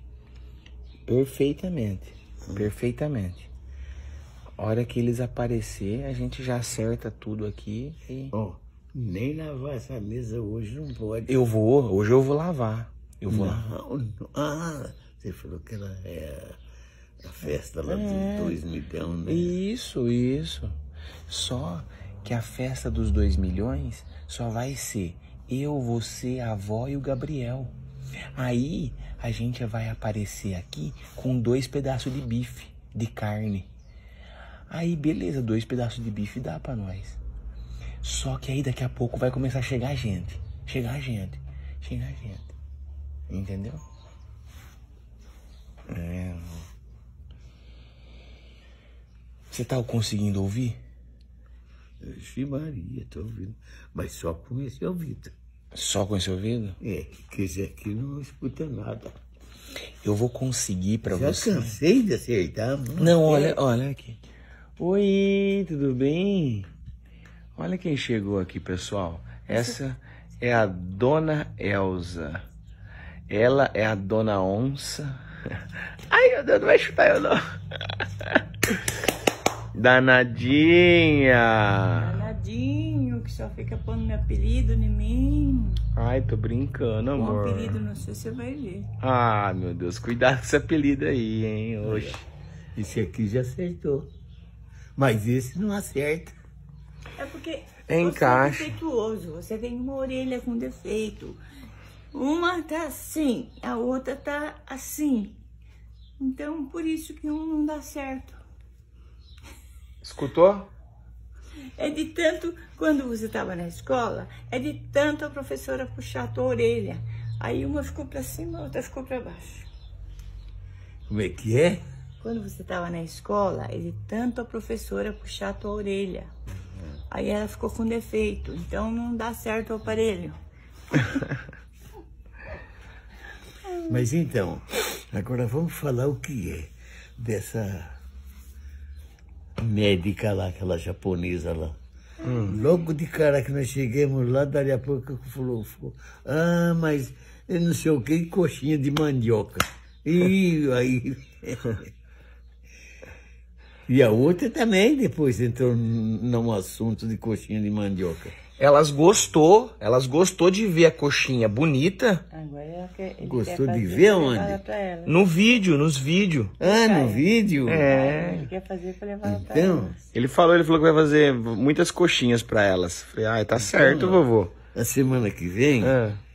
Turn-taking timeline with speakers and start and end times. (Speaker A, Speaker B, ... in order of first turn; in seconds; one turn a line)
Speaker A: 1.1-3.5
Speaker B: 2.5-2.7
Speaker A: 4.6-8.3
Speaker B: 8.3-11.4
Speaker A: 11.3-13.6
Speaker B: 13.3-16.6
Speaker B: 17.2-19.6
Speaker A: 17.9-18.6
Speaker A: 19.3-20.8
Speaker A: 21.3-27.8
Speaker A: 28.4-33.7
Speaker A: 34.7-37.2
Speaker A: 38.0-42.5
Speaker A: 43.3-43.8
Speaker A: 45.9-46.7
Speaker A: 49.5-50.8
Speaker B: 52.0-55.3
Speaker A: 55.7-56.8
Speaker B: 56.8-59.1
Speaker A: 60.0-61.8
Speaker B: 61.0-63.6
Speaker A: 63.0-64.2
Speaker A: 64.8-66.7
Speaker A: 67.6-72.4
Speaker A: 73.3-75.2
Speaker A: 76.1-77.4
Speaker A: 79.7-82.3
Speaker C: 82.0-85.8
Speaker A: 86.0-87.8
Speaker C: 87.2-88.9
Speaker A: 89.0-92.2
Speaker B: 91.8-92.2
Speaker B: 92.8-94.1
Speaker B: 95.0-96.4
Speaker C: 97.2-101.4
Speaker A: 97.9-98.8
Speaker C: 102.1-105.4
Speaker C: 106.2-108.4
Speaker A: 110.0-110.7
Speaker C: 111.8-119.7
Speaker B: 121.1-121.8
Speaker C: 122.2-126.3
Speaker C: 127.1-130.4
Speaker B: 133.8-137.9
Speaker B: 139.6-141.8
Speaker C: 142.2-142.8
Speaker A: 142.2-142.6
Speaker B: 142.4-151.8
Speaker B: 153.9-158.4
Speaker A: 158.6-162.2
Speaker C: 162.3-165.3
Speaker B: 163.2-164.6
Speaker A: 165.1-166.5
Speaker B: 166.6-167.9
Speaker C: 166.6-170.0
Speaker A: 167.7-168.5
Speaker B: 169.2-170.0
Speaker A: 170.1-174.5
Speaker B: 173.5-174.2
Speaker B: 174.8-176.0
Speaker A: 175.8-176.2